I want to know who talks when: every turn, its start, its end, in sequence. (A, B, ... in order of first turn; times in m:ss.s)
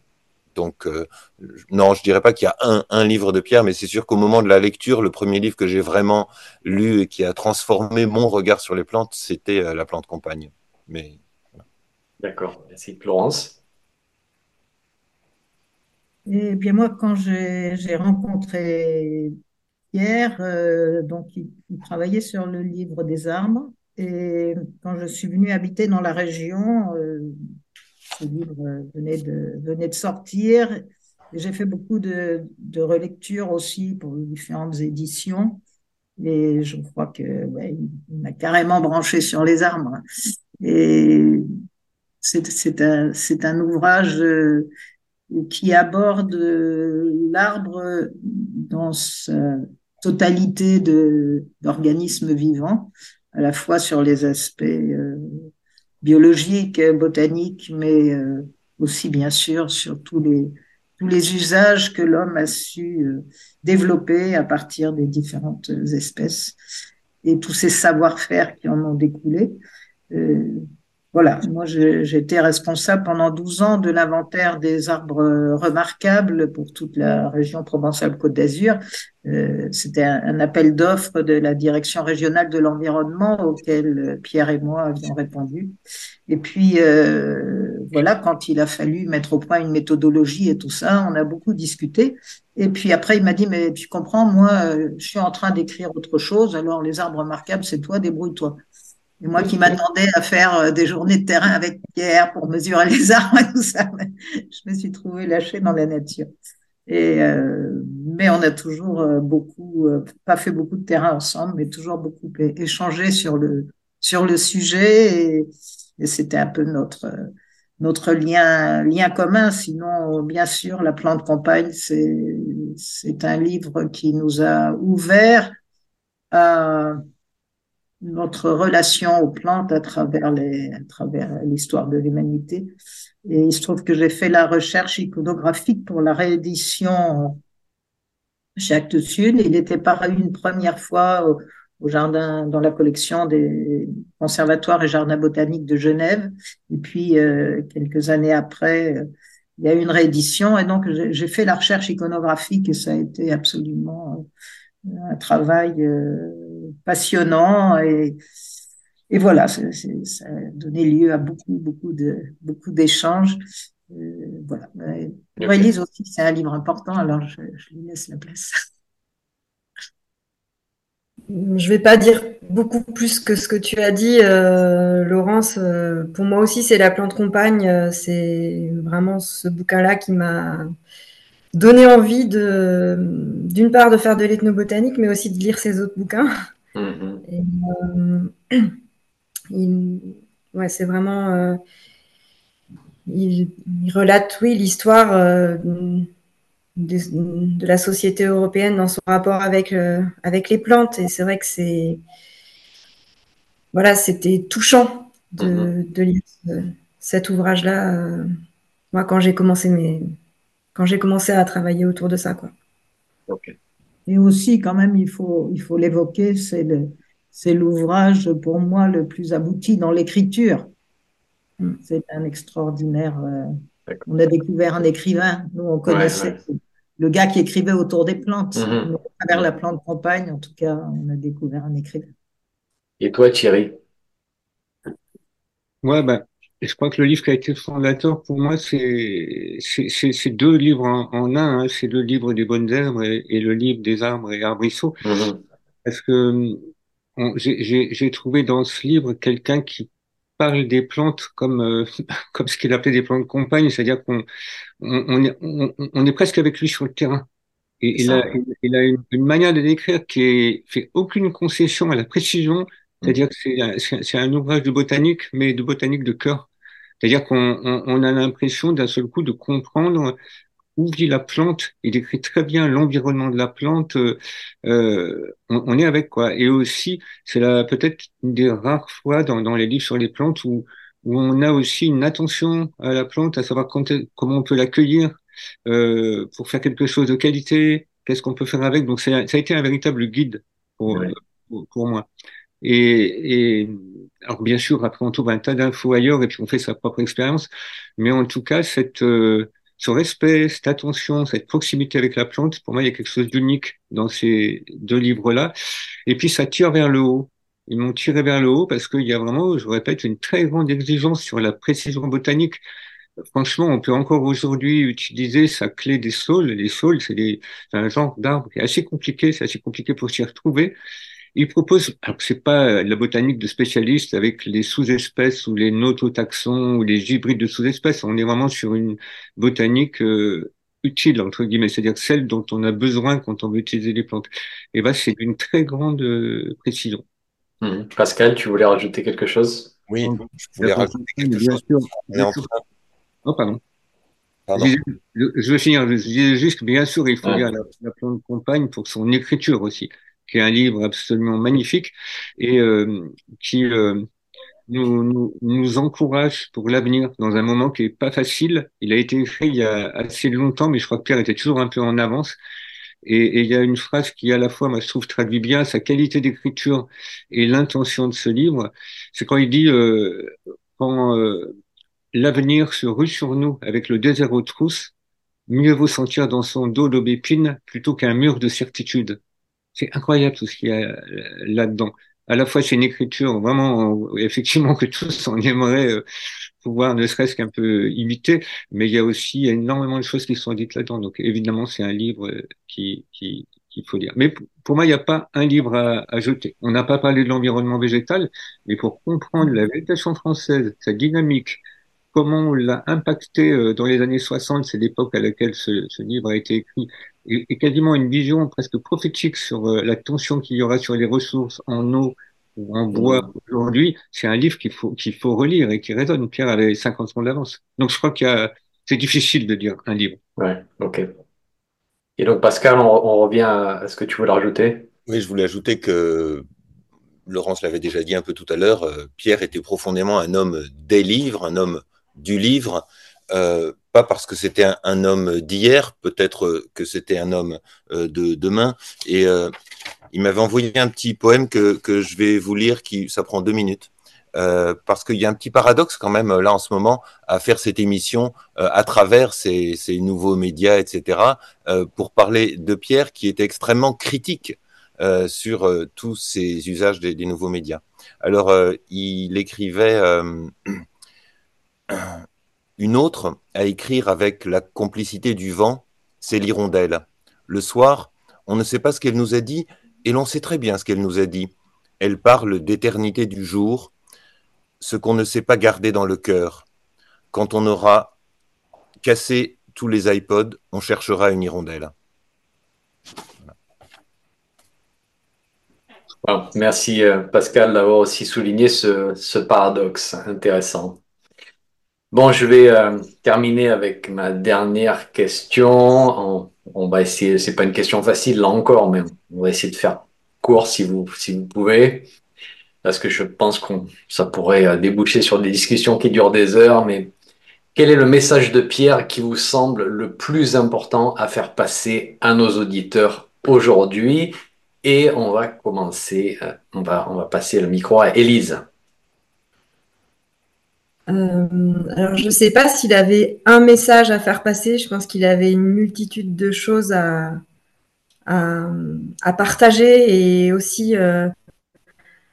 0:00.6-0:11.2 A
0:12.2-0:13.6 B
0:16.3-0:19.3 C
0:19.9-0:27.3 C
0:28.2-0:30.8 C
0:31.3-0:35.6 C
0:36.2-0:40.0 C
0:40.6-0:41.4 C
0:42.2-0:44.7 C
0:45.3-0:55.2 C
0:56.0-1:06.6 C
1:07.2-1:25.7 C
1:26.3-1:38.6 C
1:39.2-1:46.3 C
1:46.9-1:55.5 C
1:56.0-1:57.2 C
1:57.8-2:05.6 C
2:06.3-2:07.0 C
2:08.0-2:12.7 C
2:13.3-2:17.4 C
2:18.6-2:29.0 C
2:29.6-2:34.2 C
2:34.9-2:38.2 C
2:39.1-2:48.5 C
2:45.4-2:45.7 B
2:51.3-3:00.7 D
3:01.6-3:06.3 D
3:06.7-3:07.2 B
3:07.3-3:08.7 D
3:09.5-3:11.6 D
3:13.1-3:16.1 D
3:16.8-3:22.0 D
3:23.7-3:28.3 D
3:25.4-3:25.7 B
3:28.9-3:30.0 D
3:30.7-3:32.5 D
3:33.3-3:33.6 B
3:34.1-3:40.7 C
3:41.8-3:43.5 C
3:44.1-3:52.1 C
3:45.9-3:46.4 B
3:48.6-3:49.5 B
3:53.0-3:53.8 B
3:55.8-4:05.0 E
4:05.0-4:05.4 B
4:05.8-4:06.6 E
4:07.2-4:14.3 E
4:14.8-4:17.3 E
4:17.8-4:26.5 E
4:18.0-4:18.4 B
4:27.0-4:30.2 E
4:30.8-4:52.1 E
4:52.6-5:05.5 E
5:06.1-5:12.6 E
5:13.3-5:20.7 E
5:21.3-5:37.0 E
5:37.6-5:39.7 B
5:39.9-5:42.5 A
5:40.0-5:42.5 E
5:43.2-5:43.6 E
5:44.5-5:44.7 A
5:44.6-5:54.1 E
5:54.7-6:02.4 E
6:03.0-6:11.5 E
6:12.1-6:14.9 E
6:15.5-6:19.2 E
6:19.8-6:26.0 E
6:26.6-6:41.6 E
6:42.1-7:00.2 E
6:52.9-6:53.3 B
7:00.4-7:01.0 B
7:02.2-7:04.9 B
7:05.1-7:06.4 A
7:07.3-7:19.5 A
7:20.1-7:40.8 A
7:41.9-7:42.2 A
7:42.8-7:53.9 A
7:54.8-7:56.7 A
7:57.3-7:58.2 A
7:59.0-8:01.9 A
8:06.2-8:11.0 B
8:12.1-8:22.0 B
8:22.8-8:27.1 B
8:27.7-8:38.7 B
8:41.1-8:47.4 D
8:48.3-8:51.3 D